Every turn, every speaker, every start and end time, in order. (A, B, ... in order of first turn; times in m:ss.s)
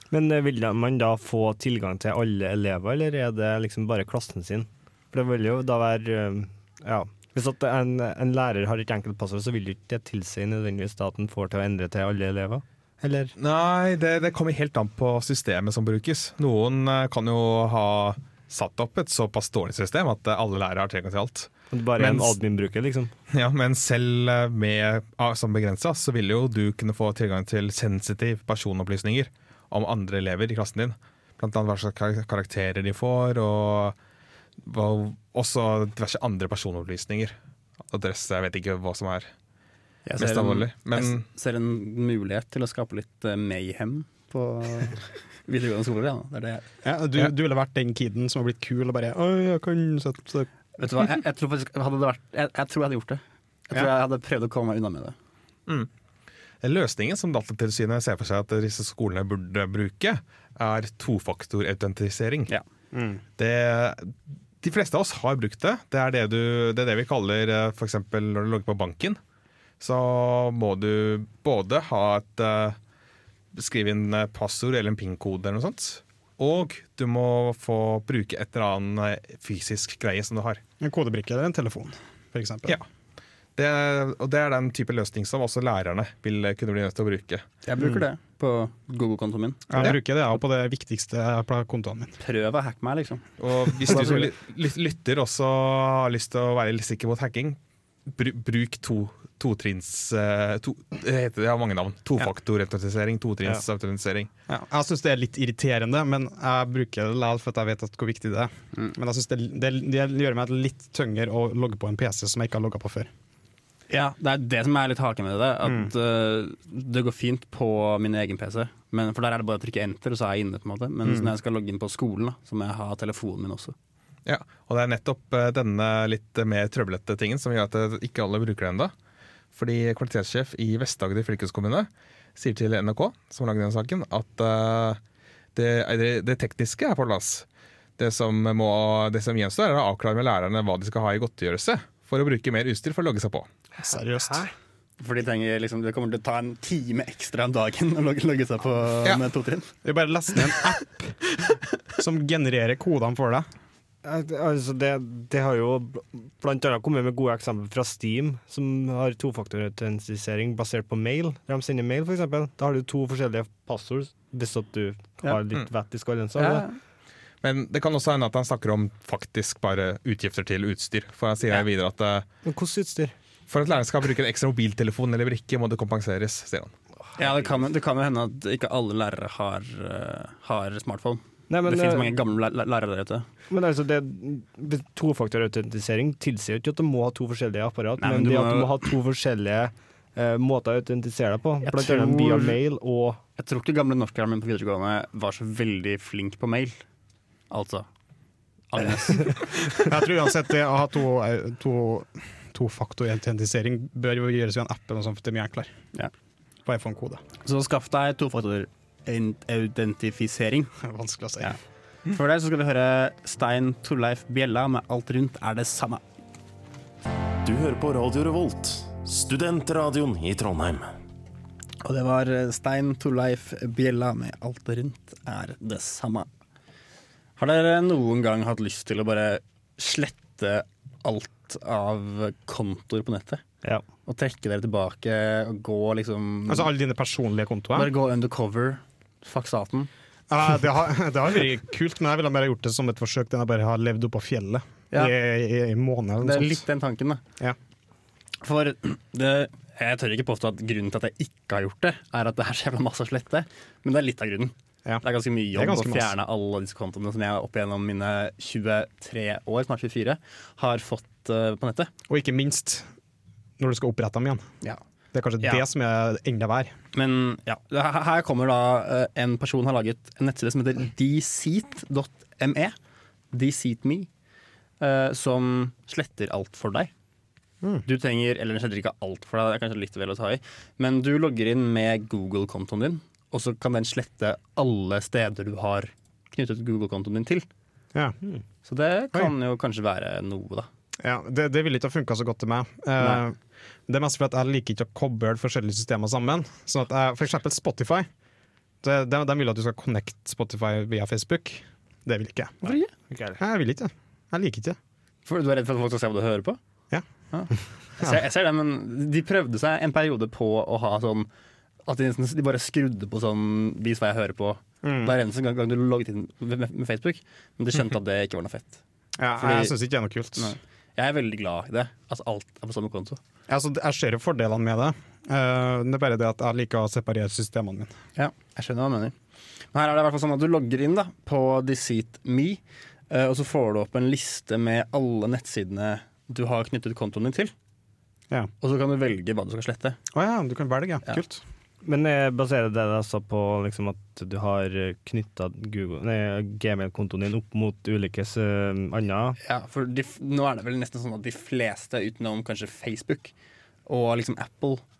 0:00.1-0:13.3 A
0:13.4-0:22.3 B
0:21.7-0:23.1 A
0:23.3-0:34.0 B
0:34.6-0:37.3 B
0:37.9-0:39.3 B
0:40.0-0:46.6 C
0:40.2-0:41.2 B
0:46.8-0:50.5 D
0:50.8-0:55.1 C
0:56.6-1:02.5 B
1:02.9-1:03.2 D
1:03.4-1:09.2 B
1:09.8-1:12.8 B
1:13.5-1:20.6 B
1:20.8-1:22.8 D
1:23.6-1:27.4 B
1:27.6-1:29.9 C
1:29.7-1:32.2 D
1:32.2-1:33.3 C
1:33.4-1:44.3 B
1:33.9-1:34.3 C
1:44.5-1:53.1 D
1:53.9-2:03.7 C
1:55.6-1:55.9 D
2:01.0-2:01.3 D
2:04.2-2:08.9 B
2:09.5-2:15.0 B
2:15.5-2:17.4 B
2:18.0-2:23.5 B
2:23.8-2:24.4 D
2:25.0-2:29.7 C
2:29.8-2:31.2 D
2:32.0-2:33.5 D
2:34.0-2:46.7 A
2:46.4-2:46.8 C
2:47.4-2:52.2 B
2:52.4-2:53.1 A
2:53.5-2:56.7 B
2:57.2-3:03.3 C
3:01.5-3:02.2 A
3:03.5-3:13.2 A
3:08.0-3:08.9 C
3:11.6-3:12.5 C
3:13.4-3:16.8 C
3:17.5-3:17.8 C
3:18.7-3:19.4 C
3:19.8-3:25.8 D
3:26.6-3:27.2 D
3:27.4-3:30.7 C
3:30.8-3:31.5 D
3:32.1-3:36.0 C
3:37.4-3:40.9 E
3:41.8-3:46.3 C
3:47.4-3:53.4 C
3:54.0-3:56.7 C
3:56.5-3:57.9 D
3:57.7-3:59.9 C
4:00.3-4:06.6 D
4:06.2-4:07.2 C
4:08.4-4:21.9 C
4:14.8-4:16.1 D
4:22.1-4:22.9 D
4:23.6-4:24.4 D
4:25.1-4:26.7 D
4:26.9-4:32.7 C
4:33.3-4:34.1 C
4:34.8-4:36.9 C
4:37.8-4:47.4 C
4:48.6-4:50.7 C
4:51.0-4:53.4 D
4:53.9-4:58.1 D
4:58.8-5:02.7 D
5:03.1-5:03.4 A
5:03.4-5:04.8 D
5:05.2-5:06.6 C
5:07.3-5:11.3 C
5:11.8-5:18.8 C
5:14.8-5:15.1 D
5:19.2-5:20.6 D
5:19.4-5:19.7 C
5:20.4-5:23.2 C
5:23.5-5:27.9 D
5:28.1-5:29.1 C
5:29.7-5:37.5 C
5:38.6-5:40.0 C
5:40.1-5:41.4 D
5:41.8-5:49.4 A
5:49.4-5:53.3 C
5:53.8-5:54.8 C